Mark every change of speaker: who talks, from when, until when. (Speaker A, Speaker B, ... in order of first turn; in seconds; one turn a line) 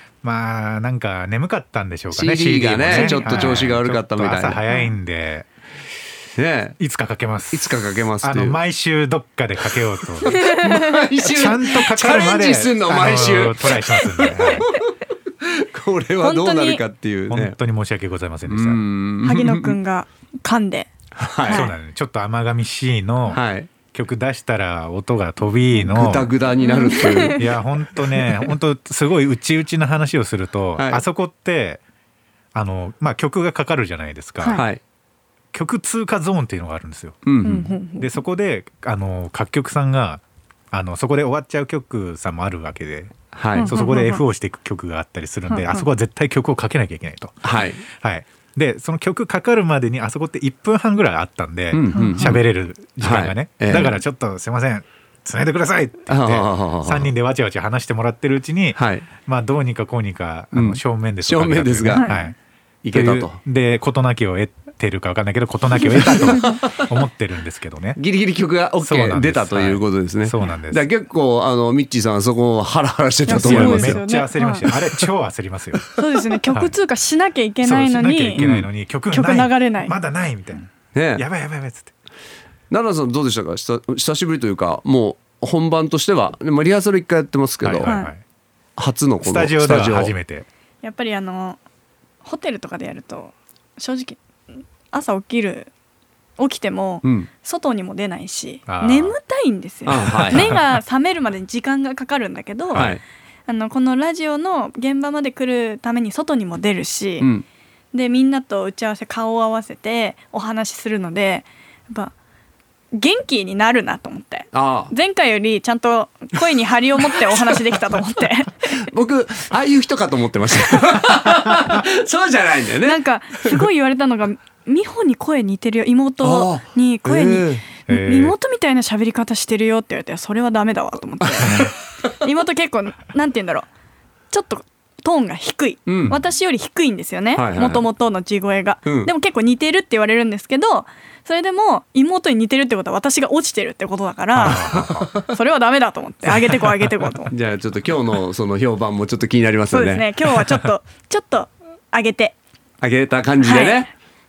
Speaker A: 0.2-5.5
Speaker B: 2.1-4.6
Speaker C: 2.9-3.6
Speaker B: 6.4-6.8
Speaker A: 6.8-10.4
Speaker B: 7.5-8.6
Speaker B: 10.2-14.8
Speaker C: 10.3-11.0
Speaker A: 11.3-14.7
Speaker C: 14.2-14.7
Speaker B: 15.4-17.6
Speaker C: 16.2-16.8
Speaker A: 17.3-18.8
Speaker B: 18.5-19.8
Speaker C: 19.2-20.9
Speaker B: 21.2-21.7
Speaker A: 21.4-26.3
Speaker C: 21.4-21.7
Speaker B: 23.3-23.7
Speaker B: 25.8-27.5
Speaker C: 26.6-27.4
Speaker A: 27.4-31.8
Speaker B: 28.0-28.5
Speaker B: 30.8-31.0
Speaker A: 32.5-34.6
Speaker C: 34.4-34.6
Speaker B: 34.5-34.8
Speaker A: 35.5-37.2
Speaker B: 37.2-37.7
Speaker C: 37.4-38.2
Speaker A: 38.0-62.4
Speaker B: 43.3-43.7
Speaker C: 43.5-44.2
Speaker C: 45.5-45.9
Speaker B: 47.4-47.8
Speaker B: 51.7-52.4
Speaker C: 51.9-52.4
Speaker B: 53.0-54.0
Speaker B: 56.1-57.1
Speaker B: 58.8-59.1
Speaker B: 60.5-62.1
Speaker C: 61.9-62.3
Speaker B: 62.8-63.4
Speaker A: 62.9-68.0
Speaker B: 65.8-66.8
Speaker B: 68.0-74.0
Speaker A: 68.8-70.8
Speaker C: 73.2-74.7
Speaker A: 73.3-75.8
Speaker C: 76.0-78.5
Speaker A: 77.6-81.9
Speaker B: 78.4-78.7
Speaker C: 79.1-80.0
Speaker B: 80.9-81.2
Speaker B: 82.7-87.9
Speaker A: 87.6-88.2
Speaker C: 87.8-88.1
Speaker B: 88.8-90.1
Speaker A: 89.2-90.5
Speaker C: 90.8-91.6
Speaker C: 92.2-94.2
Speaker C: 94.9-95.7
Speaker C: 96.4-102.9
Speaker B: 97.0-97.3
Speaker A: 98.7-99.2
Speaker B: 99.8-100.5
Speaker A: 100.1-100.7
Speaker A: 102.7-103.0
Speaker B: 102.7-103.0
Speaker C: 103.5-107.3
Speaker B: 107.2-107.4
Speaker C: 107.9-112.1
Speaker C: 112.9-118.6
Speaker B: 114.5-114.9
Speaker B: 118.8-123.6
Speaker C: 122.8-133.7
Speaker B: 126.2-127.6
Speaker A: 127.9-128.3
Speaker A: 131.4-131.7
Speaker C: 134.3-147.3
Speaker B: 135.8-136.2
Speaker B: 137.3-137.8
Speaker B: 138.8-139.1
Speaker A: 144.3-145.1
Speaker B: 144.5-145.2
Speaker A: 146.2-146.6
Speaker B: 147.3-150.1
Speaker C: 149.7-152.3
Speaker B: 152.8-153.9
Speaker C: 153.4-153.9